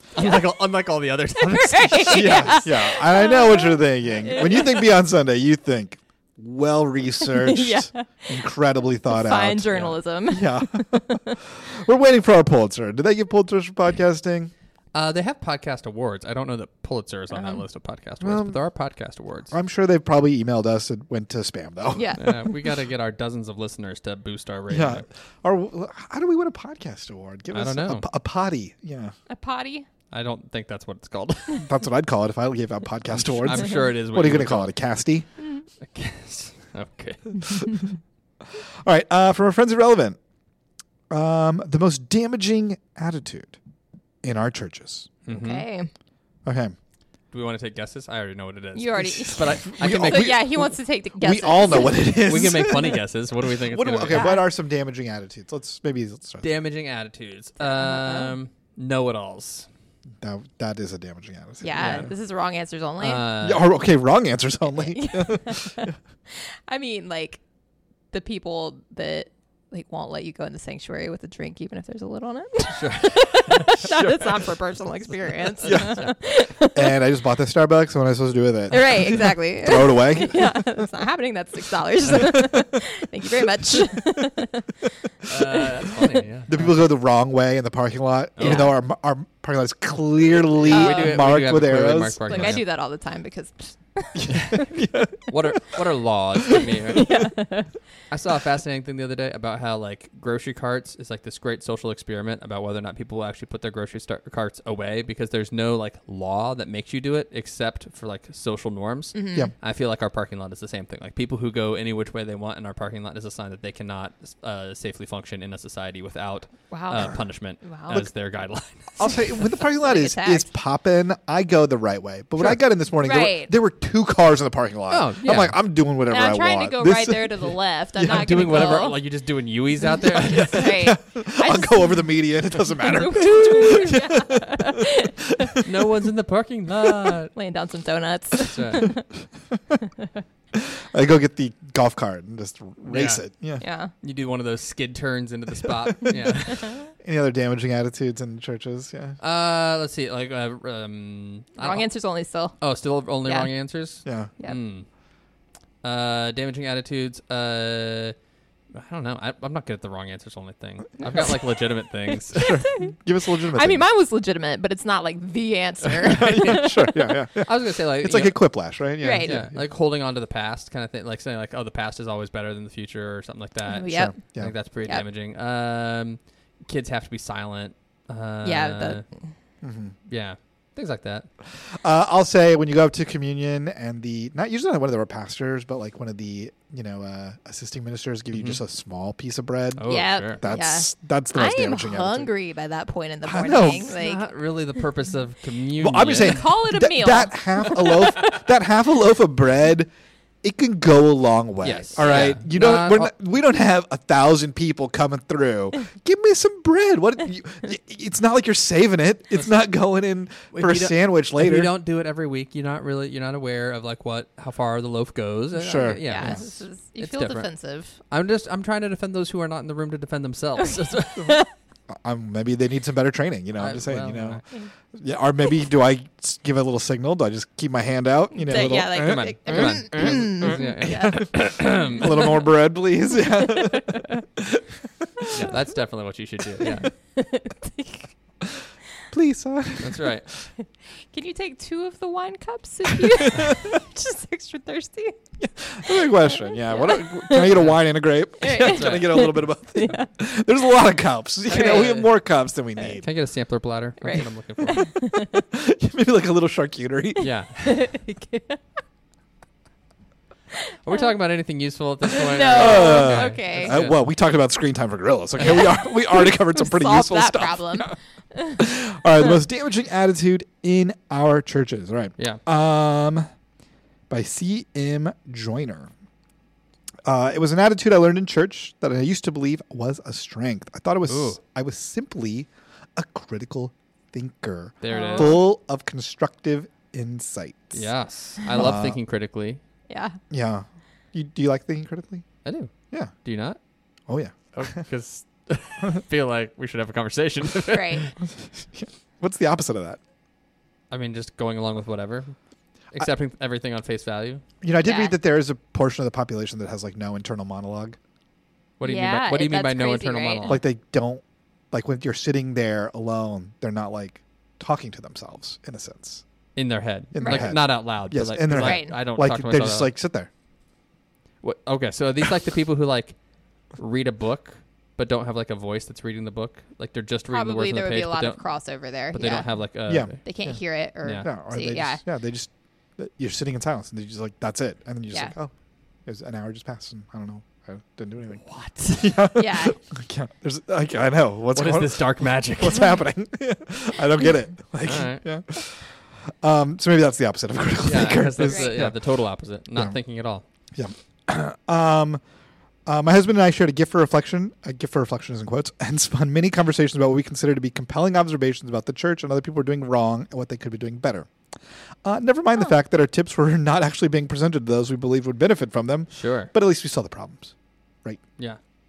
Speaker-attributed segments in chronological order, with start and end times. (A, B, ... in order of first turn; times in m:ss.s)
0:00.1-0:02.6 A
0:01.4-0:04.9 B
0:02.1-0:14.5 C
0:07.2-0:08.4 B
0:09.1-0:10.9 B
0:14.9-0:19.5 A
0:17.3-0:17.6 B
0:18.2-0:18.6 C
0:19.5-0:22.2 C
0:21.9-0:22.4 B
0:22.2-0:25.0 A
0:24.7-0:29.1 C
0:27.5-0:28.0 A
0:29.3-0:29.9 B
0:30.1-0:31.7 A
0:31.6-0:35.2 C
0:33.1-0:34.7 A
0:35.8-0:37.7 A
0:38.5-0:40.2 C
0:41.1-0:43.6 C
0:44.2-0:45.1 C
0:45.2-0:45.6 A
0:45.3-0:45.9 B
0:46.4-0:46.7 C
0:47.3-0:50.4 A
0:48.7-0:52.2 B
0:49.1-0:53.0 C
0:51.9-0:54.3 A
0:53.6-0:56.5 C
0:54.1-0:54.4 B
0:56.4-0:59.7 A
0:57.6-0:58.3 B
1:00.2-1:02.1 C
1:01.6-1:03.2 B
1:01.7-1:02.1 A
1:03.0-1:03.6 A
1:03.4-1:05.9 C
1:04.7-1:07.4 B
1:08.1-1:17.0 B
1:12.7-1:13.9 A
1:13.8-1:14.3 C
1:15.6-1:16.1 C
1:15.6-1:16.1 A
1:16.7-1:20.6 C
1:18.7-1:24.7 B
1:22.1-1:22.6 C
1:25.2-1:26.8 A
1:25.3-1:26.0 B
1:26.5-1:32.6 C
1:28.4-1:28.7 A
1:28.4-1:28.7 B
1:30.6-1:32.6 A
1:30.7-1:31.3 B
1:32.2-1:34.7 B
1:34.2-1:35.6 C
1:34.3-1:34.7 A
1:35.2-1:37.5 A
1:36.5-1:37.7 B
1:38.1-1:59.1 A
1:49.1-1:49.5 B
1:56.7-1:58.1 B
1:59.0-2:08.2 C
1:59.0-2:00.5 B
2:03.0-2:03.5 B
2:04.9-2:05.6 A
2:06.1-2:09.0 B
2:08.0-2:10.8 A
2:10.0-2:12.1 B
2:10.5-2:14.8 C
2:12.7-2:15.6 B
2:15.6-2:17.3 A
2:17.3-2:19.0 B
2:18.5-2:19.0 A
2:20.5-2:23.6 C
2:22.9-2:23.2 A
2:23.6-2:23.9 B
2:24.0-2:26.8 A
2:27.0-2:29.2 C
2:29.2-2:31.9 A
2:31.6-2:32.5 B
2:32.6-2:34.8 A
2:33.2-2:33.5 B
2:34.0-2:34.3 C
2:35.8-2:38.1 A
2:38.7-2:42.6 A
2:41.0-2:41.5 B
2:42.3-2:42.9 B
2:42.3-2:43.8 C
2:43.5-2:47.0 B
2:46.0-2:49.6 C
2:46.1-2:46.7 A
2:47.4-2:48.4 A
2:49.0-2:49.4 B
2:49.2-2:59.0 A
2:53.6-2:54.1 B
2:53.9-2:54.5 C
2:58.4-2:59.0 B
2:59.6-2:59.9 C
3:00.1-3:01.3 A
3:01.6-3:12.3 C
3:08.3-3:08.6 A
3:09.8-3:10.4 A
3:09.9-3:14.2 B
3:13.2-3:13.9 C
3:13.9-3:16.4 A
3:15.8-3:19.9 C
3:16.1-3:18.4 B
3:20.4-3:31.7 C
3:21.6-3:23.1 A
3:22.0-3:22.3 B
3:30.5-3:41.4 A
3:35.6-3:36.4 C
3:36.0-3:38.0 B
3:41.2-3:41.5 B
3:41.9-3:55.5 C
3:43.6-3:44.4 A
3:48.3-3:52.4 B
3:48.5-3:52.4 A
3:53.2-3:54.2 B
3:55.3-3:56.9 A
3:56.6-3:58.1 B
3:59.1-4:00.1 C
3:59.8-4:00.3 A
4:01.1-4:05.2 B
4:03.0-4:03.6 C
4:05.4-4:13.1 C
4:05.8-4:07.6 B
4:07.5-4:07.8 A
4:08.4-4:10.1 B
4:08.5-4:09.3 A
4:11.5-4:12.1 A
4:11.5-4:12.0 B
4:12.8-4:14.9 A
4:14.0-4:15.4 B
4:15.5-4:17.3 C
4:17.2-4:17.8 A
4:17.6-4:18.6 B
4:20.7-4:21.1 B
4:20.8-4:24.0 A
4:22.1-4:23.8 B
4:22.5-4:27.9 C
4:25.4-4:25.7 A
4:25.4-4:28.6 B
4:28.6-4:33.3 C
4:34.1-4:35.9 C
4:37.0-4:47.9 C
4:41.1-4:41.4 A
4:44.8-4:45.4 A
4:44.9-4:45.4 B
4:47.7-4:49.6 A
4:48.5-4:49.0 C
4:49.9-4:50.2 B
4:50.3-4:52.2 C
4:52.4-4:52.7 A
4:53.2-4:53.6 A
4:54.1-4:54.7 C
4:54.5-4:58.1 A
4:57.7-4:58.1 B
4:58.7-5:00.0 C
5:00.9-5:02.3 A
5:02.9-5:04.4 A
5:04.6-5:08.0 C
5:04.8-5:05.1 B
5:08.8-5:10.6 A
5:08.8-5:10.6 B
5:10.5-5:16.2 C
5:16.6-5:19.9 A
5:17.1-5:20.3 C
5:17.2-5:17.5 B
5:18.5-5:19.0 B
5:21.4-5:23.2 A
5:23.7-5:28.4 A
5:27.3-5:29.5 B
5:29.0-5:30.2 A
5:29.9-5:30.6 C
5:30.2-5:32.0 B
5:31.2-5:35.5 C
5:36.0-5:49.0 C
5:38.4-5:39.2 A
5:39.3-5:39.8 B
5:41.5-5:42.9 A
5:44.8-5:45.2 A
5:47.8-5:50.4 A
5:48.4-5:48.8 B
5:50.7-5:52.2 C
5:52.8-6:01.3 C
6:02.0-6:07.5 C
6:06.1-6:06.5 A